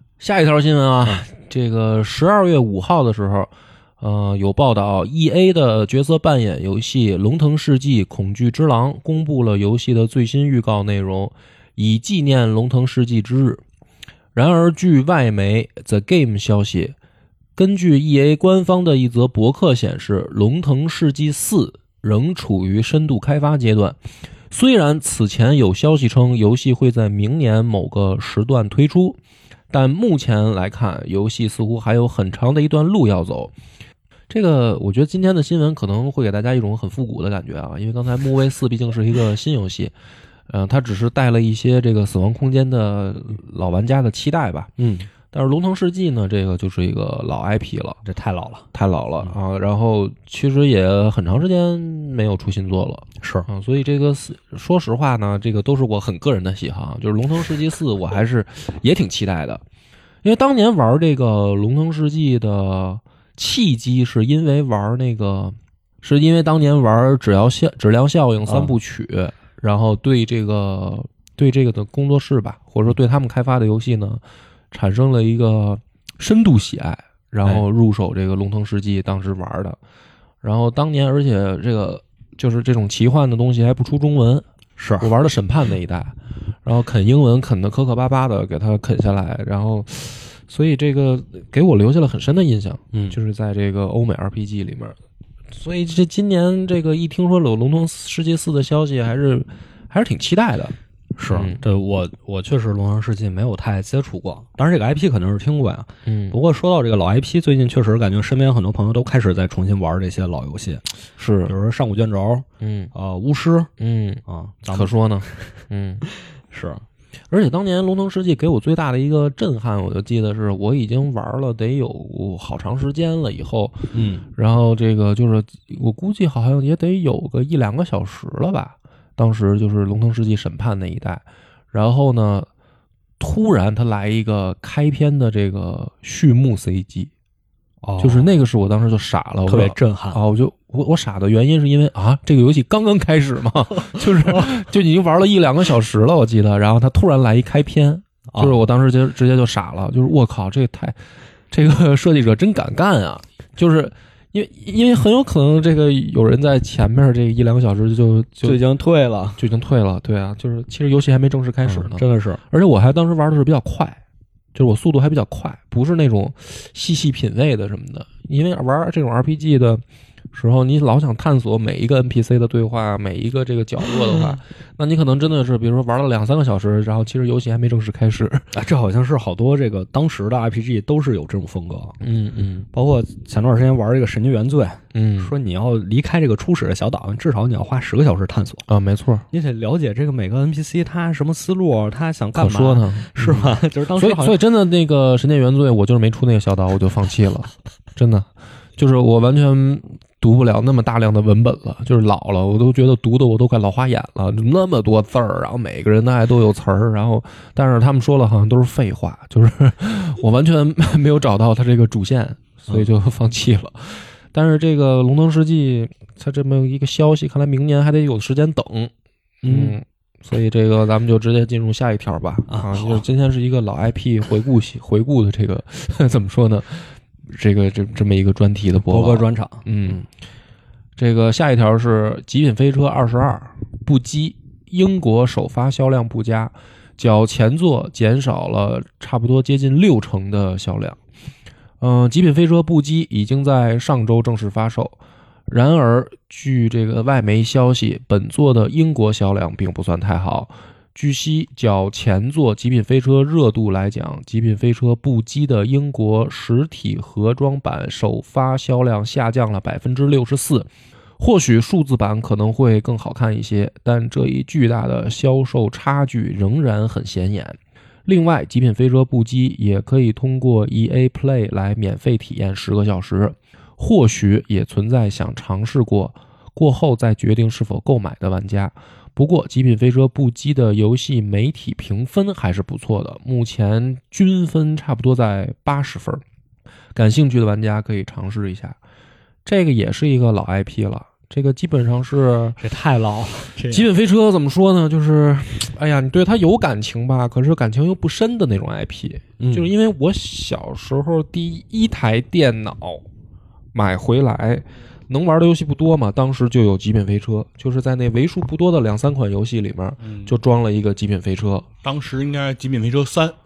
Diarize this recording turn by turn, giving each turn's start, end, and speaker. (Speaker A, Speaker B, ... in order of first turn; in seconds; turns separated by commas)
Speaker A: 0.2-13.6, Speaker A: 14.3-16.9, Speaker A: 17.6-24.0, Speaker A: 24.5-29.2, Speaker A: 29.7-33.5, Speaker A: 34.3-39.9, Speaker A: 40.5-44.7, Speaker B: 44.8-45.1, Speaker A: 45.3-48.0, Speaker B: 48.0-48.6, Speaker A: 48.7-59.6, Speaker B: 53.2-53.5, Speaker A: 60.2-79.8, Speaker B: 68.5-68.7, Speaker A: 80.4-84.5, Speaker B: 84.8-85.1, Speaker A: 85.0-95.0, Speaker A: 95.5-100.7, Speaker B: 101.2-110.8, Speaker A: 101.3-101.6, Speaker A: 106.0-106.4, Speaker A: 111.2-111.5, Speaker B: 111.5-113.7, Speaker A: 112.6-112.9, Speaker A: 113.8-116.0, Speaker B: 114.2-115.5, Speaker B: 116.1-116.8, Speaker A: 117.3-132.5, Speaker B: 123.9-124.2, Speaker A: 133.2-137.1, Speaker B: 137.8-138.3, Speaker A: 138.0-150.9, Speaker B: 139.4-140.2, Speaker B: 143.8-144.5, Speaker B: 148.3-148.6, Speaker A: 151.5-158.6, Speaker B: 158.4-159.4, Speaker A: 159.4-164.0, Speaker B: 161.7-162.4, Speaker A: 164.5-169.8, Speaker A: 170.3-178.5, Speaker B: 178.5-182.0, Speaker A: 182.0-182.7, Speaker B: 182.7-188.6, Speaker A: 184.9-185.3, Speaker A: 188.7-189.2, Speaker B: 189.3-194.4, Speaker A: 192.3-218.9, Speaker B: 219.4-219.8, Speaker A: 219.4-230.0, Speaker B: 222.5-223.0, Speaker B: 228.8-230.0, Speaker A: 231.0-241.0, Speaker A: 241.8-260.7, Speaker A: 261.2-286.2, Speaker A: 286.9-288.8, Speaker A: 289.4-292.6, Speaker B: 292.6-293.9, Speaker A: 293.7-303.0, Speaker B: 299.4-299.7, Speaker A: 303.7-311.7, Speaker C: 310.0-310.4, Speaker C: 311.8-313.4